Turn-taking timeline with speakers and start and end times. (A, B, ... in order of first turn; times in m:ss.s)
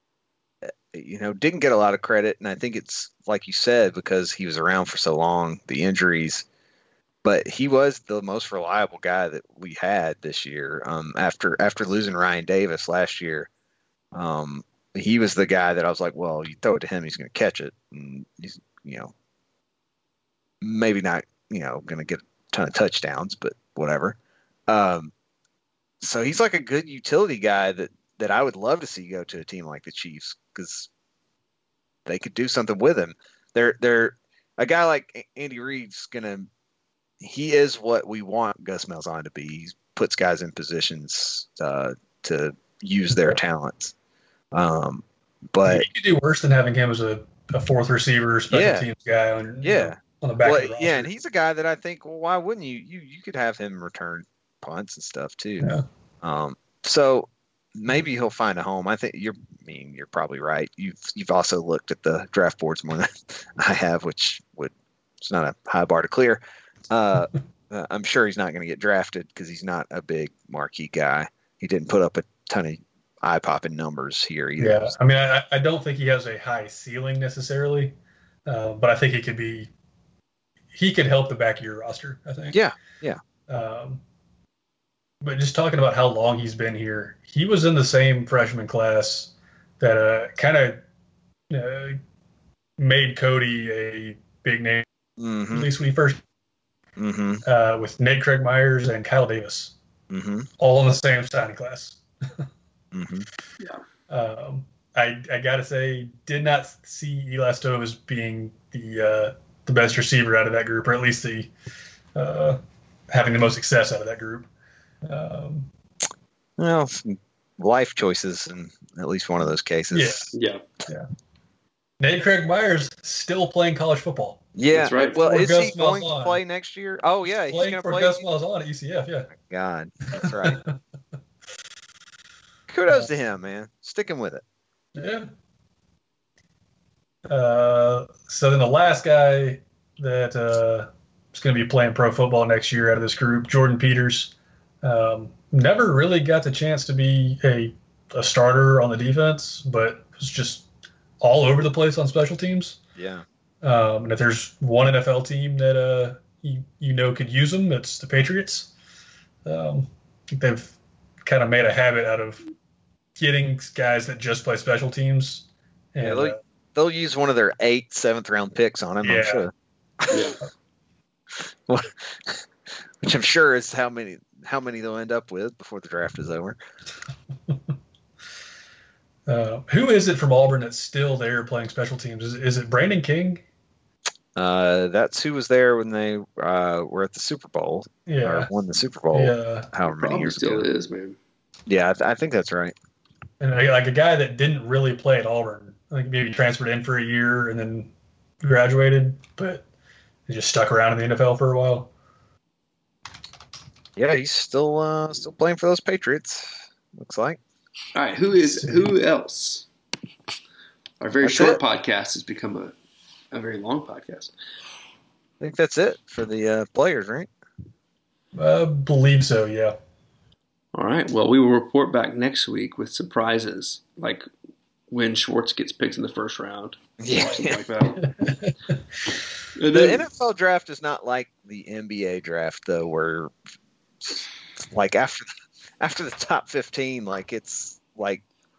0:00.9-0:06.5 A
0:07.2-0:13.5 A
0:14.1-0:19.1 A
0:20.6-0:24.2 A
0:24.7-0:25.1 A
0:26.0-0:30.9 A
0:32.1-0:36.5 A
0:37.2-0:43.9 A
0:44.5-0:45.9 A
0:45.6-0:51.1 B
0:48.5-0:48.9 A
0:49.6-0:55.7 A
0:56.2-1:14.9 A
1:14.6-1:18.0 B
1:18.5-1:19.7 B
1:20.7-1:22.6 B
1:22.5-1:23.2 A
1:23.5-1:24.0 B
1:25.2-1:30.8 B
1:31.5-1:32.0 B
1:32.8-1:34.9 B
1:35.2-1:35.7 A
1:35.5-1:36.2 B
1:37.0-1:37.4 A
1:37.4-1:39.7 B
1:40.1-1:40.5 A
1:40.6-1:42.5 B
1:42.9-1:43.3 A
1:44.1-1:51.5 B
1:52.2-1:54.5 B
1:55.0-1:55.7 B
1:56.6-2:00.3 A
1:59.9-2:00.3 B
2:00.4-2:00.6 C
2:02.0-2:06.4 B
2:04.6-2:08.2 A
2:04.7-2:05.2 C
2:07.5-2:09.3 B
2:09.3-2:10.6 A
2:10.1-2:10.8 B
2:12.7-2:14.4 A
2:15.0-2:15.3 B
2:17.3-2:30.7 B
2:31.2-2:32.8 B
2:33.0-2:33.2 A
2:33.6-2:38.7 B
2:39.4-2:42.4 B
2:43.2-2:46.4 B
2:46.0-2:49.5 A
2:49.0-2:49.5 B
2:50.0-2:50.4 A
2:50.1-2:50.4 C
2:51.3-2:52.5 A
2:53.0-2:56.6 A
2:59.3-3:03.4 B
3:04.4-3:10.7 A
3:08.1-3:08.5 B
3:09.1-3:09.7 B
3:09.8-3:11.2 C
3:11.7-3:12.8 A
3:13.4-3:19.7 B
3:20.3-3:21.9 B
3:24.0-3:27.4 A
3:28.0-3:29.7 C
3:28.4-3:28.9 B
3:31.0-3:32.7 C
3:31.2-3:31.6 A
3:33.3-3:34.3 C
3:35.4-3:37.3 A
3:38.4-3:39.8 B
3:40.7-3:44.2 C
3:44.9-3:48.0 C
3:47.0-3:47.6 A
3:48.2-3:48.5 B
3:49.6-3:50.0 C
3:49.7-3:53.3 A
3:54.0-3:55.3 A
3:55.8-3:58.2 A